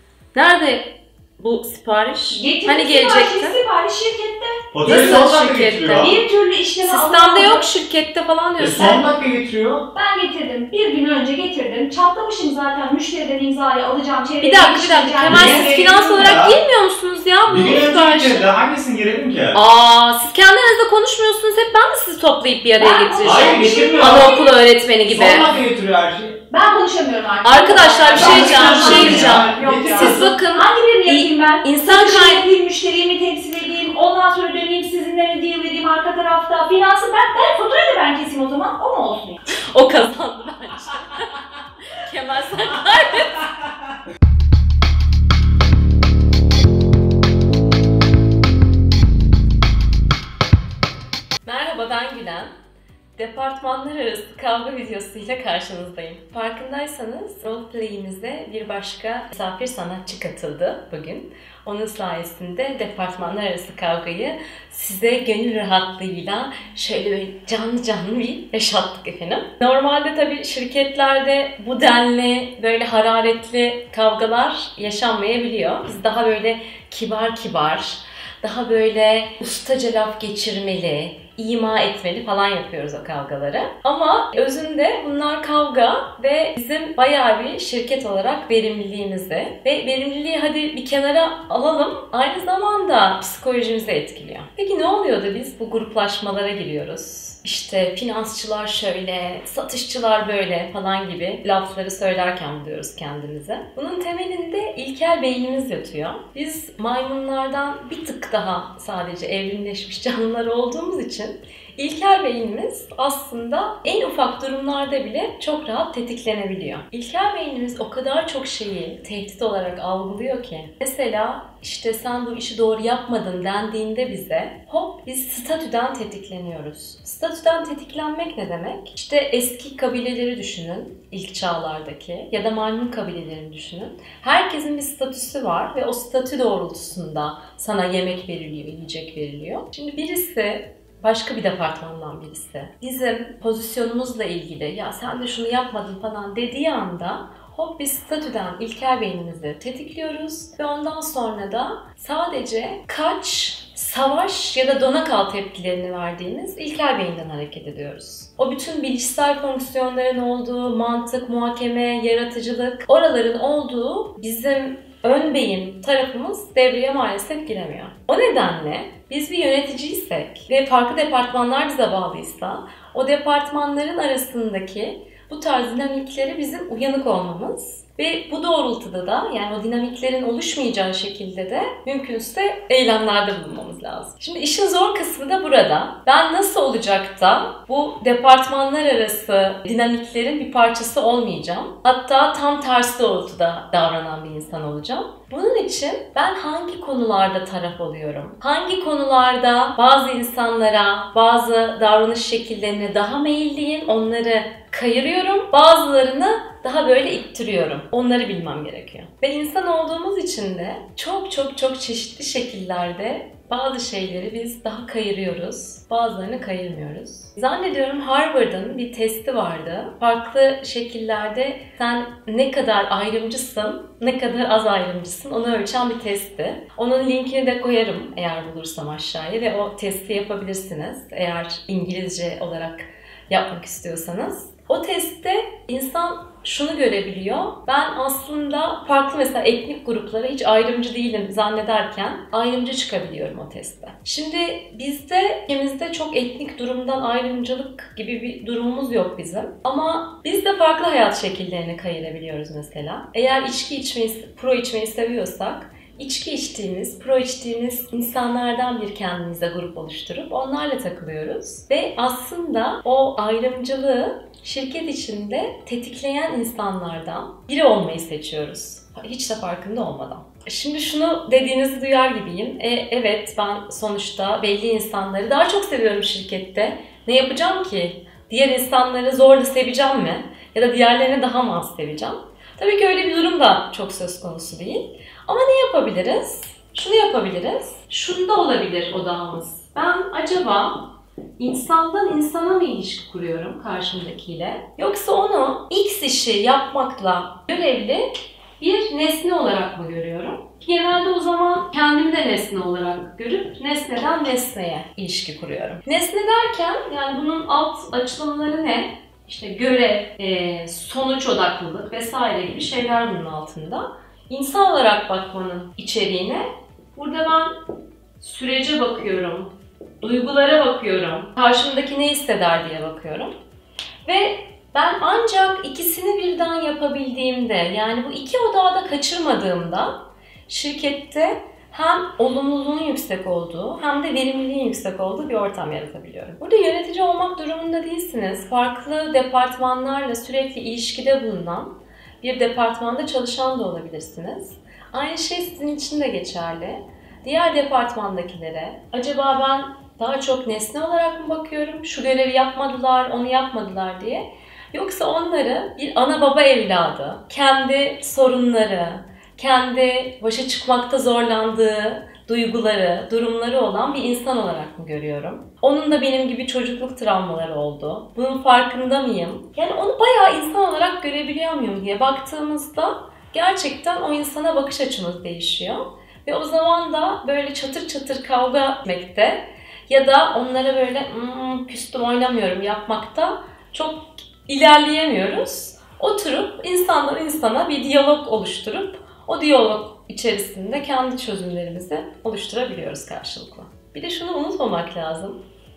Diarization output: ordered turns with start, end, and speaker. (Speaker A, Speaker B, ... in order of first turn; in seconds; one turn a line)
Speaker A: 0.3-3.6
Speaker B: 2.3-5.1
Speaker C: 4.7-6.1
Speaker A: 4.8-6.2
Speaker B: 5.9-7.7
Speaker A: 6.8-9.1
Speaker C: 8.6-9.8
Speaker B: 9.9-15.7
Speaker A: 14.4-18.5
Speaker C: 15.3-16.6
Speaker C: 17.5-19.6
Speaker A: 19.5-25.5
Speaker B: 22.8-24.6
Speaker C: 23.2-24.3
Speaker C: 25.1-26.4
Speaker B: 26.5-39.4
Speaker A: 27.4-32.5
Speaker C: 28.1-30.2
Speaker A: 39.5-43.5
Speaker A: 51.5-52.5
Speaker A: 53.2-317.6
Speaker A: 318.2-323.3
Speaker A: 324.1-395.4